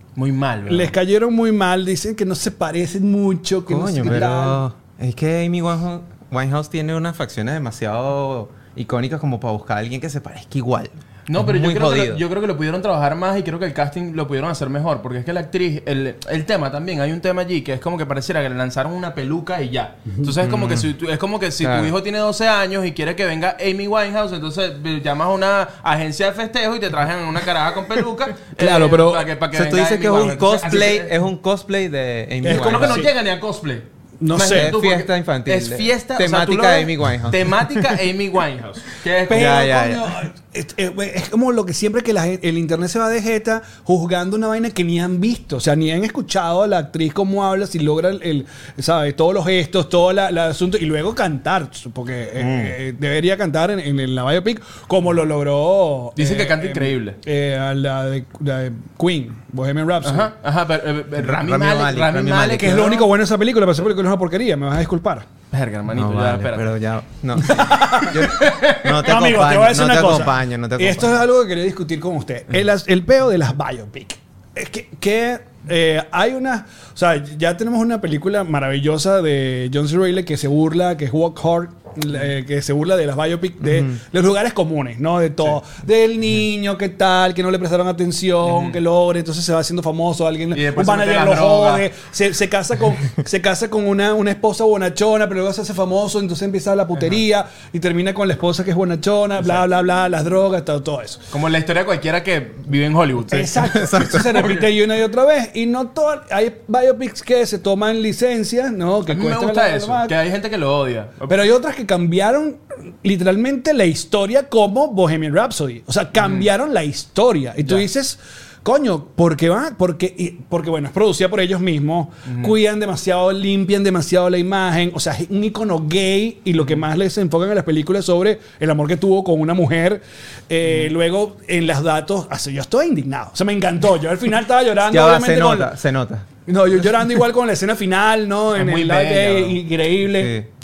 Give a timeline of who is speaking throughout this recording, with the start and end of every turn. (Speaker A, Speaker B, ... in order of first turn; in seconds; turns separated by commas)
Speaker A: 0.2-0.9, Speaker B: 0.7-4.6, Speaker C: 3.7-12.2, Speaker A: 11.3-31.1, Speaker C: 20.4-20.9, Speaker C: 21.6-21.9, Speaker B: 28.6-29.3, Speaker C: 29.5-33.1, Speaker B: 32.4-33.1, Speaker A: 32.4-39.6, Speaker B: 34.2-34.7, Speaker C: 34.5-38.0, Speaker B: 39.3-60.3, Speaker C: 39.3-40.1, Speaker A: 52.4-52.8, Speaker A: 56.2-57.2, Speaker A: 60.0-63.1, Speaker C: 61.2-62.9, Speaker B: 62.6-65.3, Speaker A: 65.5-66.7, Speaker C: 65.9-71.2, Speaker B: 67.4-101.2, Speaker A: 68.3-69.0, Speaker C: 83.7-84.0, Speaker A: 88.4-88.8, Speaker A: 90.5-91.9, Speaker A: 101.3-104.7, Speaker B: 103.3-110.1, Speaker C: 103.7-104.4, Speaker A: 109.1-111.4, Speaker B: 111.3-135.7, Speaker A: 116.2-116.5, Speaker A: 122.3-122.5, Speaker C: 134.9-136.3, Speaker B: 136.5-140.3, Speaker A: 138.6-139.6, Speaker C: 140.1-140.5